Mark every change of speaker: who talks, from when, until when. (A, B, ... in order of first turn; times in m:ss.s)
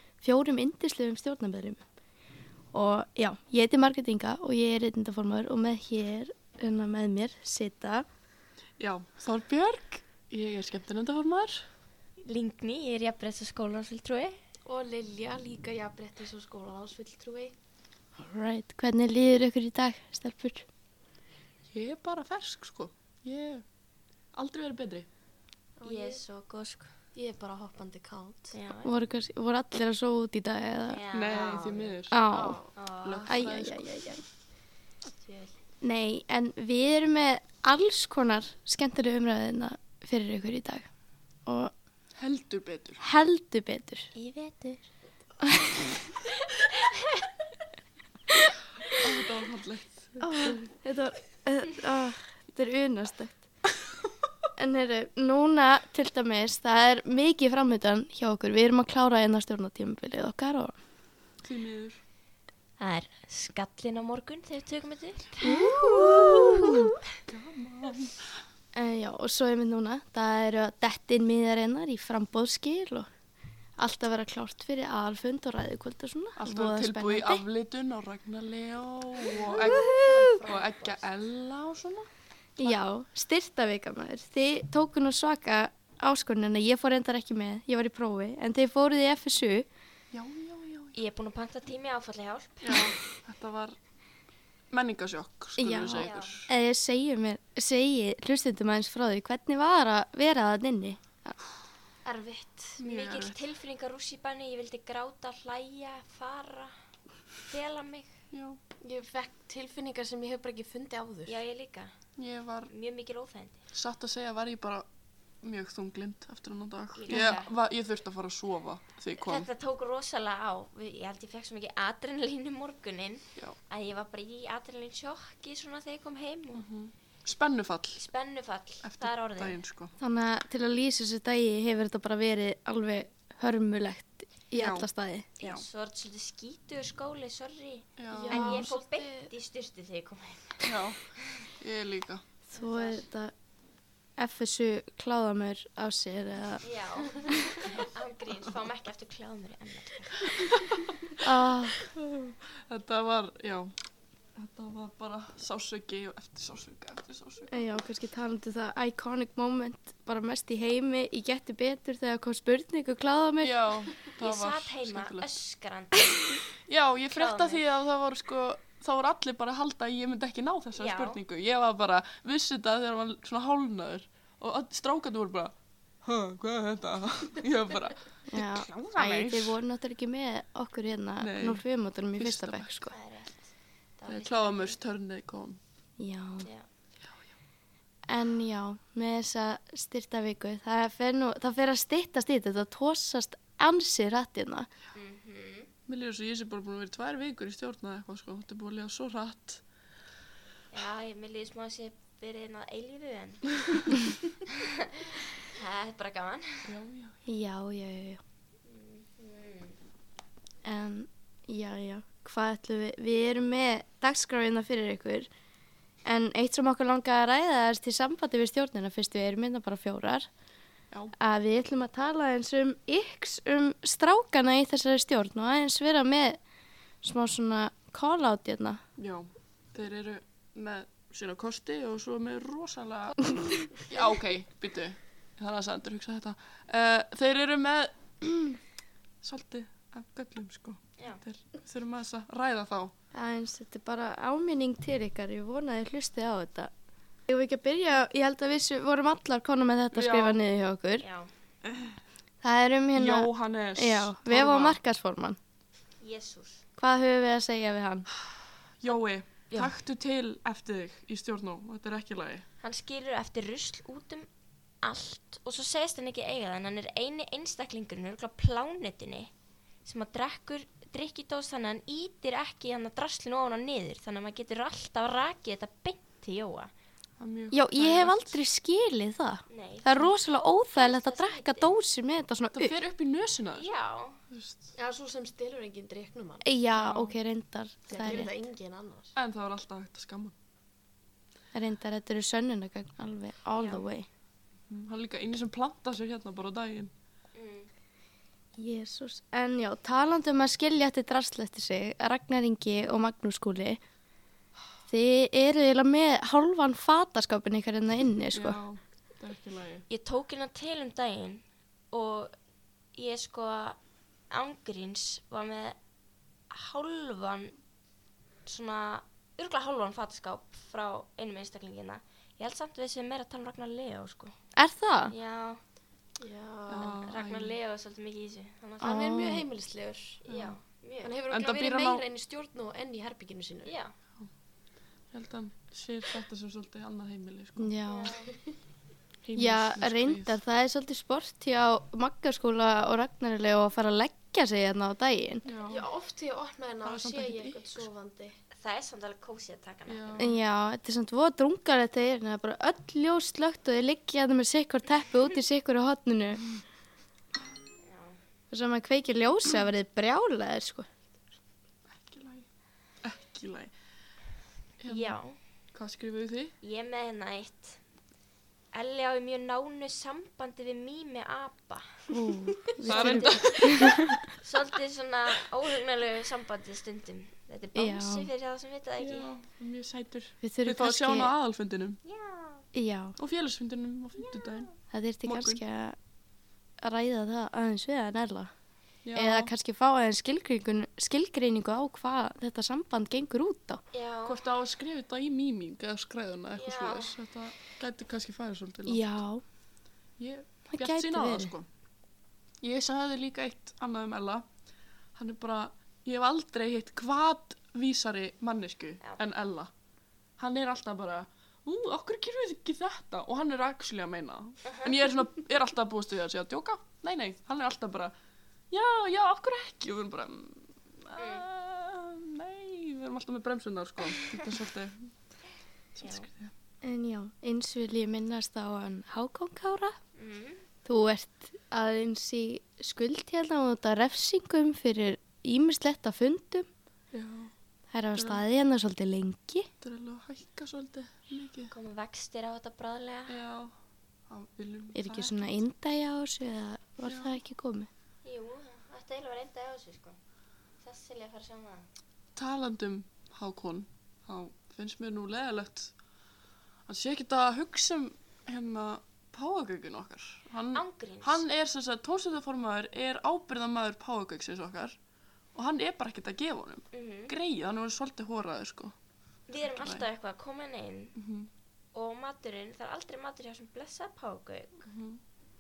0:00.2-0:01.8 A
0:02.7-0:08.1 A
0:08.8-0:11.6 B
0:12.2-0:14.4 C
0:14.6-0:17.5 D
0:18.2-0:20.6 A
0:21.7-0:23.6 B
0:24.3-0:25.1 B
0:25.8-0:26.2 D
0:25.8-0:26.9 C
0:27.1-0:28.5 D
0:28.5-0:28.9 C
0:28.8-0:31.0 A
0:30.9-0:32.0 C
0:31.1-0:32.2 B
0:31.3-0:31.7 D
0:32.1-0:32.7 A
0:32.3-0:32.8 D
0:32.8-0:33.5 C
0:33.0-0:33.9 B
0:33.3-0:34.2 A
0:35.2-0:35.5 C
0:35.8-0:40.9 A
0:41.4-0:41.7 A
0:42.2-0:43.0 B
0:43.0-0:44.1 A
0:44.1-0:44.8 C
0:45.4-0:45.7 A
0:48.9-0:50.3 B
0:50.2-0:53.4 A
0:54.6-1:00.8 A
1:01.4-1:02.0 B
1:02.8-1:06.8 C
1:05.4-1:06.9 A
1:05.7-1:06.6 B
1:07.2-1:08.2 B
1:08.7-1:13.1 A
1:13.8-1:17.4 A
1:16.4-1:22.1 B
1:19.3-1:21.0 D
1:22.6-1:29.7 A
1:30.1-1:31.0 B
1:30.9-1:32.9 C
1:32.6-1:33.8 B
1:34.7-1:36.5 B
1:35.6-1:41.4 A
1:36.0-1:36.3 C
1:42.0-1:42.8 D
1:42.8-1:46.8 C
1:42.8-1:43.4 B
1:47.5-1:48.1 C
1:48.3-1:48.6 B
1:48.8-1:51.4 D
1:51.2-1:51.9 C
1:52.2-1:52.7 B
1:52.7-1:53.6 C
1:53.7-1:54.9 B
1:55.4-1:59.5 B
1:56.9-1:57.5 C
1:59.2-2:06.7 C
2:06.5-2:08.0 B
2:08.0-2:09.6 C
2:08.8-2:09.9 B
2:10.0-2:15.3 A
2:14.5-2:14.9 B
2:15.4-2:20.8 C
2:15.4-2:15.6 B
2:18.0-2:18.8 B
2:18.1-2:19.3 D
2:20.6-2:22.2 B
2:22.5-2:23.3 A
2:22.6-2:23.0 C
2:24.2-2:27.6 A
2:26.6-2:30.8 C
2:31.2-2:31.8 A
2:31.8-2:33.7 B
2:34.4-2:37.5 B
2:37.5-2:43.6 A
2:43.4-2:45.2 B
2:44.2-2:46.3 C
2:46.7-2:59.6 B
2:47.1-2:47.6 C
2:50.8-2:51.2 C
2:58.3-3:02.9 A
3:01.2-3:01.6 B
3:02.2-3:02.9 B
3:02.9-3:03.4 C
3:04.0-3:04.8 C
3:04.1-3:05.6 B
3:06.0-3:06.5 A
3:08.1-3:14.7 A
3:14.9-3:15.7 C
3:15.9-3:19.6 B
3:20.7-3:26.7 C
3:26.7-3:27.2 B
3:27.3-3:28.2 A
3:28.7-3:29.8 C
3:30.6-3:35.3 A
3:36.0-3:40.3 A
3:41.2-3:46.4 A
3:47.0-3:48.8 A
3:49.0-3:58.6 B
3:59.2-4:02.9 B
4:03.1-4:06.7 A
4:07.3-4:11.0 A
4:09.9-4:10.4 B
4:11.0-4:11.3 C
4:11.6-4:12.0 B
4:12.4-4:15.4 A
4:13.0-4:14.8 B
4:16.0-4:16.6 C
4:16.8-4:18.1 A
4:18.8-4:22.5 B
4:22.6-4:24.3 C
4:24.8-4:29.3 C
4:29.8-4:36.7 C
4:37.2-4:38.4 B
4:37.5-4:42.7 A
4:39.5-4:40.1 C
4:40.8-4:41.8 C
4:42.5-4:43.7 B
4:43.6-4:44.2 C
4:44.3-4:44.7 B
4:44.8-4:46.5 D
4:46.4-4:48.3 A
4:46.8-4:47.2 B
4:47.9-4:49.1 D
4:49.2-4:50.4 B
4:51.5-4:54.1 A
4:53.6-4:54.0 C
4:54.7-4:56.9 B
4:57.4-4:57.7 C
4:58.6-5:03.8 A
5:04.9-5:08.6 A
5:08.3-5:09.9 B
5:09.9-5:12.3 C
5:13.0-5:13.8 C
5:14.3-5:15.8 C
5:16.5-5:17.6 C
5:18.4-5:24.4 C
5:24.6-5:25.1 A
5:25.1-5:25.6 C
5:26.2-5:27.0 D
5:26.7-5:27.6 B
5:26.8-5:29.1 C
5:28.8-5:29.4 A
5:28.8-5:30.2 D
5:30.2-5:31.2 C
5:30.3-5:30.6 B
5:31.0-5:33.7 D
5:31.3-5:32.0 B
5:33.6-5:33.9 C
5:35.1-5:37.7 B
5:37.6-5:38.1 A
5:37.9-5:38.3 C
5:39.2-5:40.3 B
5:39.4-5:45.4 A
5:45.5-5:45.9 B
5:45.7-5:48.4 D
5:46.8-5:47.9 B
5:48.5-5:50.3 C
5:49.9-5:50.4 B
5:50.2-5:56.5 A
5:57.8-5:58.2 C
5:58.5-6:00.9 A
6:01.9-6:02.5 B
6:03.0-6:03.7 B
6:04.8-6:05.2 B
6:04.9-6:05.4 C
6:05.7-6:06.6 B
6:06.6-6:07.8 C
6:08.7-6:12.1 C
6:12.1-6:14.1 A
6:12.8-6:19.3 C
6:12.8-6:14.2 B
6:17.8-6:18.3 A
6:19.0-6:22.0 B
6:20.4-6:21.3 A
6:22.0-6:22.7 C
6:22.7-6:23.2 A
6:23.2-6:24.7 B
6:24.2-6:24.7 C
6:24.9-6:26.0 A
6:25.2-6:25.6 B
6:26.8-6:28.5 A
6:29.0-6:29.5 B
6:29.2-6:33.8 A
6:33.9-6:34.4 C
6:34.3-6:39.0 B
6:36.6-6:37.2 C
6:38.9-6:39.4 A
6:40.2-6:41.7 B
6:40.7-6:41.5 A
6:42.6-6:44.5 B
6:45.2-6:49.7 B
6:50.4-6:58.1 B
6:54.6-6:55.0 C
6:58.7-7:05.1 B
7:01.2-7:01.5 C
7:06.0-7:06.5 B
7:06.0-7:06.3 C
7:06.8-7:10.0 A
7:10.2-7:10.6 C
7:10.8-7:16.7 A
7:17.1-7:17.5 B
7:17.9-7:19.7 A
7:18.2-7:18.4 B
7:19.8-7:21.7 B
7:21.7-7:23.4 C
7:23.3-7:23.7 B
7:24.3-7:25.6 B
7:25.0-7:27.9 A
7:27.0-7:27.3 B
7:28.2-7:30.2 C
7:30.8-7:31.9 C
7:32.4-7:35.9 B
7:36.9-7:45.0 B
7:40.7-7:41.4 C
7:45.6-7:49.0 B
7:46.9-7:47.4 C
7:49.5-7:51.2 C
7:49.6-7:50.0 B
7:51.2-7:51.5 B
7:51.9-7:54.9 C
7:54.8-7:55.2 B